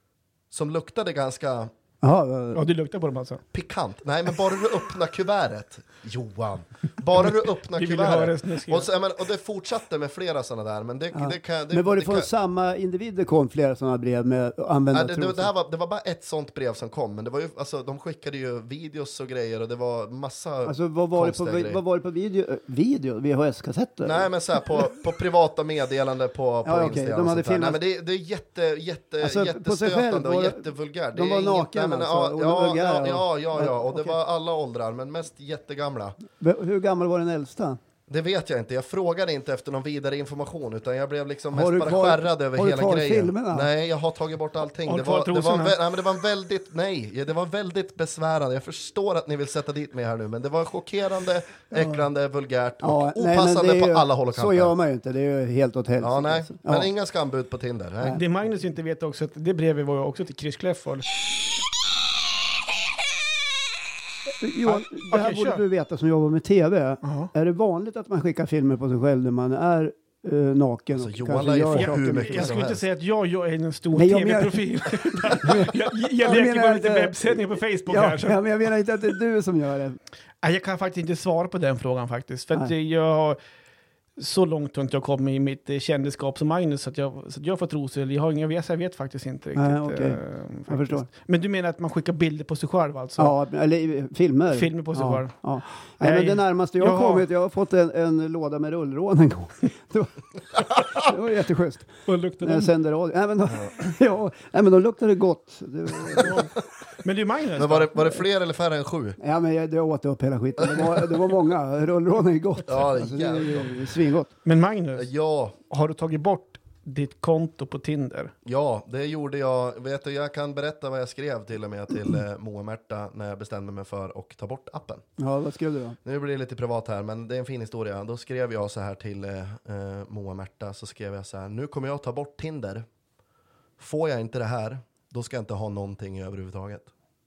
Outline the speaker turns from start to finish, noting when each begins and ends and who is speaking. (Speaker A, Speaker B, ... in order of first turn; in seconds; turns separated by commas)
Speaker A: 0.5-1.7, Speaker B: 2.0-2.6, Speaker C: 2.5-3.4, Speaker A: 3.5-12.3, Speaker C: 7.8-8.9, Speaker B: 11.1-15.5, Speaker A: 14.9-21.8, Speaker B: 20.6-24.3, Speaker A: 24.0-36.2, Speaker B: 26.6-27.8, Speaker B: 29.2-34.2, Speaker B: 36.4-37.8, Speaker A: 38.1-54.7, Speaker B: 41.5-43.7, Speaker C: 44.9-45.8, Speaker B: 51.8-52.0, Speaker B: 52.8-56.9, Speaker A: 56.0-58.2, Speaker C: 58.1-61.1, Speaker B: 64.4-72.6, Speaker C: 64.7-65.6, Speaker C: 67.0-67.3, Speaker A: 71.0-72.8, Speaker C: 71.8-78.4, Speaker B: 74.0-80.0, Speaker C: 80.4-83.4, Speaker C: 84.2-93.3, Speaker B: 89.6-91.1, Speaker B: 93.2-106.5, Speaker C: 94.5-97.3, Speaker C: 102.1-102.7, Speaker C: 106.2-106.5, Speaker C: 107.0-107.9, Speaker A: 107.6-109.2, Speaker B: 109.2-114.3, Speaker A: 110.6-111.2, Speaker A: 112.7-113.7, Speaker C: 114.5-115.1, Speaker A: 115.0-115.6, Speaker C: 115.7-118.3, Speaker A: 118.5-125.0, Speaker B: 125.2-126.0, Speaker A: 126.0-132.8, Speaker A: 133.8-136.9